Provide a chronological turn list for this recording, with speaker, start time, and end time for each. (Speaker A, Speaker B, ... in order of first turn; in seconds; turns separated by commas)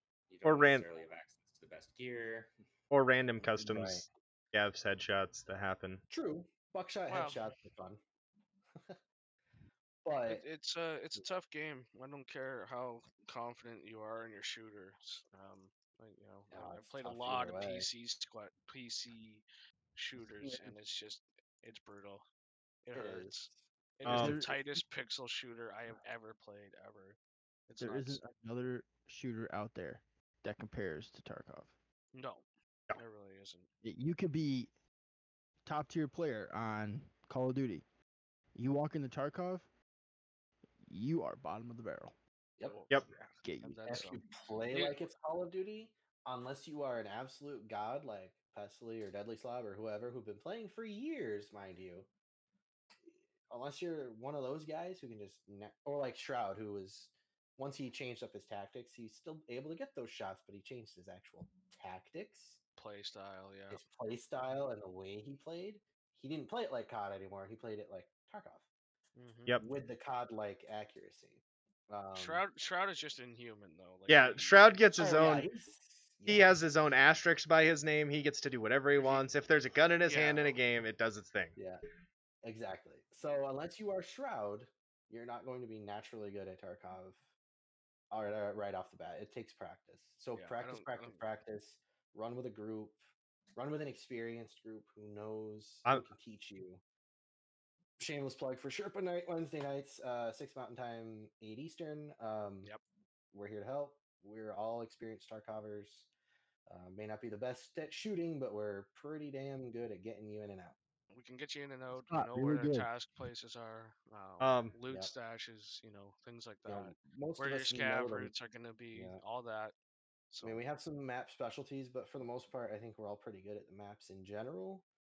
Speaker A: 0.3-2.5, Speaker B: 0.4-0.8, Speaker B: 2.9-6.0, Speaker C: 3.6-4.1, Speaker C: 6.1-8.0, Speaker D: 7.1-7.5, Speaker C: 10.0-10.4, Speaker D: 10.1-19.4, Speaker C: 16.5-17.9, Speaker D: 19.9-22.2, Speaker E: 20.2-20.8, Speaker D: 22.8-27.2, Speaker C: 22.9-23.6, Speaker E: 24.0-24.8, Speaker B: 24.1-24.4, Speaker D: 27.7-28.2, Speaker E: 27.8-31.8, Speaker D: 32.1-32.4, Speaker D: 33.0-33.7, Speaker E: 33.8-34.7, Speaker E: 35.6-37.8, Speaker E: 38.5-39.7, Speaker E: 40.8-42.1, Speaker D: 42.6-45.0, Speaker E: 43.4-44.1, Speaker C: 43.9-52.1, Speaker C: 53.5-62.6, Speaker D: 62.8-63.8, Speaker C: 63.7-68.6, Speaker D: 69.2-69.5, Speaker C: 69.6-72.4, Speaker D: 72.1-75.0, Speaker B: 74.1-75.5, Speaker C: 75.0-76.5, Speaker B: 76.3-81.5, Speaker D: 79.0-79.3, Speaker D: 80.0-80.6, Speaker C: 81.5-81.8, Speaker C: 82.4-87.2, Speaker C: 88.1-93.0, Speaker D: 90.3-91.2, Speaker C: 93.5-96.8, Speaker C: 98.0-102.7, Speaker C: 103.3-106.1, Speaker C: 106.7-110.8, Speaker D: 111.1-119.7, Speaker E: 111.9-112.9, Speaker B: 114.4-114.7, Speaker C: 116.7-118.3, Speaker C: 118.9-119.2, Speaker D: 120.3-120.6, Speaker C: 120.4-124.8